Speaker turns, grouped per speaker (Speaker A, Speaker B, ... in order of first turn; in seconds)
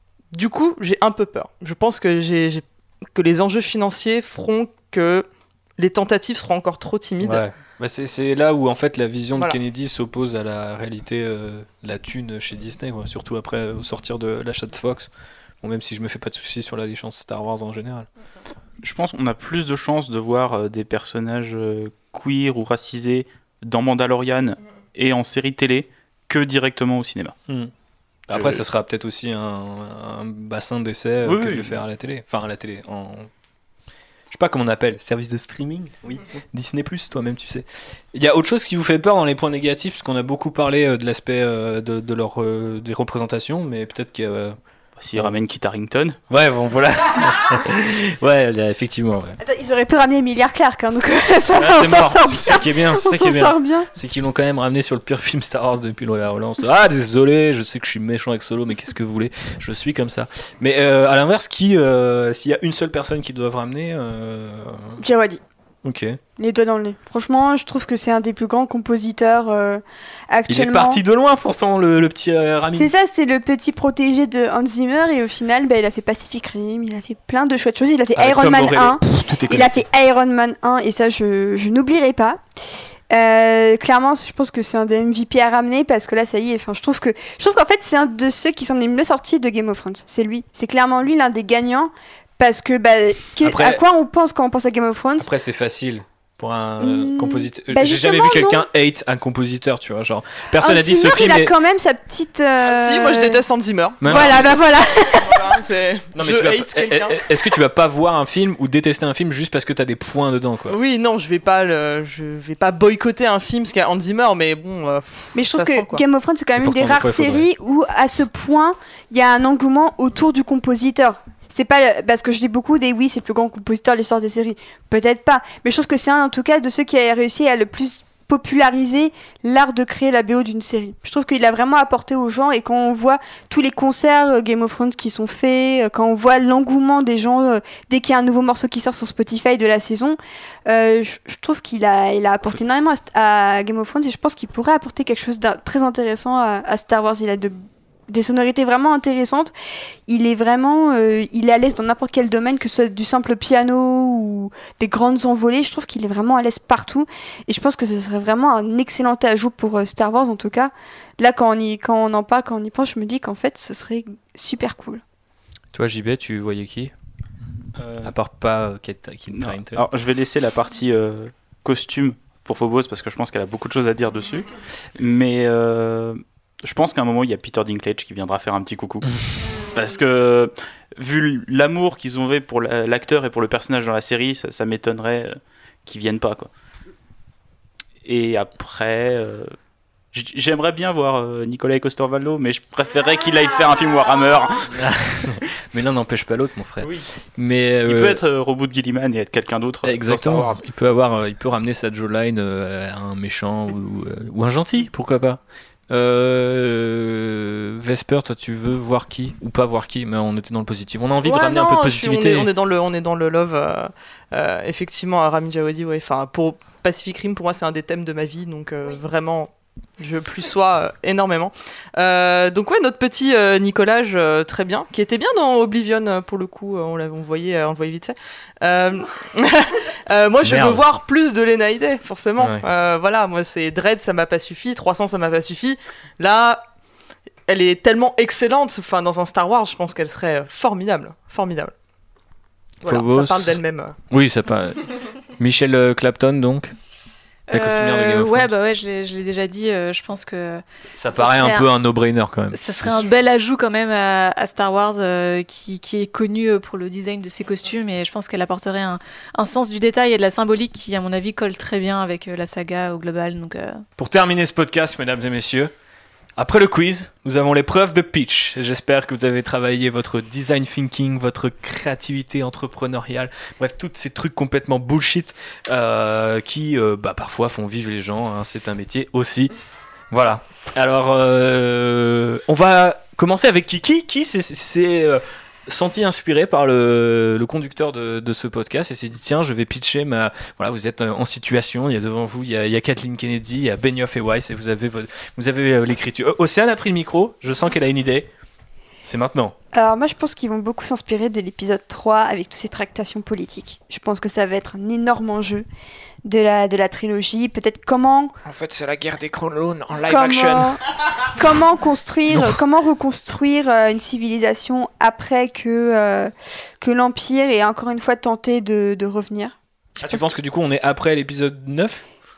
Speaker A: 0.3-5.3, 5.8-7.4, 102.6-107.5, 110.7-116.0, 211.2-236.6, 237.5-241.7, 242.8-244.0
Speaker B: 7.2-15.1, 15.6-18.1, 28.3-33.3, 34.3-44.6, 46.3-49.4, 51.6-65.0, 65.8-66.2, 70.5-72.9, 78.2-79.8, 93.4-93.8, 95.2-101.5, 104.0-104.6, 106.2-110.8, 116.6-117.5, 165.7-166.9, 167.8-169.8, 194.8-198.2, 199.8-212.5, 230.4-230.8, 232.4-232.6, 242.8-243.5, 244.1-246.7, 247.5-248.5, 251.0-253.1, 264.0-265.7, 266.4-279.5, 280.1-298.3, 299.1-299.6, 308.4-310.8, 312.3-312.6, 320.0-322.0
Speaker C: 18.8-27.4, 28.3-28.6, 31.2-31.8, 45.0-46.2, 169.3-186.5, 188.0-189.6, 190.1-194.7, 196.8-197.1, 197.9-200.6
Speaker D: 49.4-53.9, 65.0-65.4, 66.4-71.0, 72.7-82.4, 83.1-95.3, 96.8-98.7, 100.5-103.4, 104.0-105.5, 115.3-147.6, 148.1-149.5, 150.1-165.0, 299.7-305.7, 306.2-308.3, 310.1-310.8, 311.3-320.3
Speaker E: 247.5-251.7, 252.5-263.8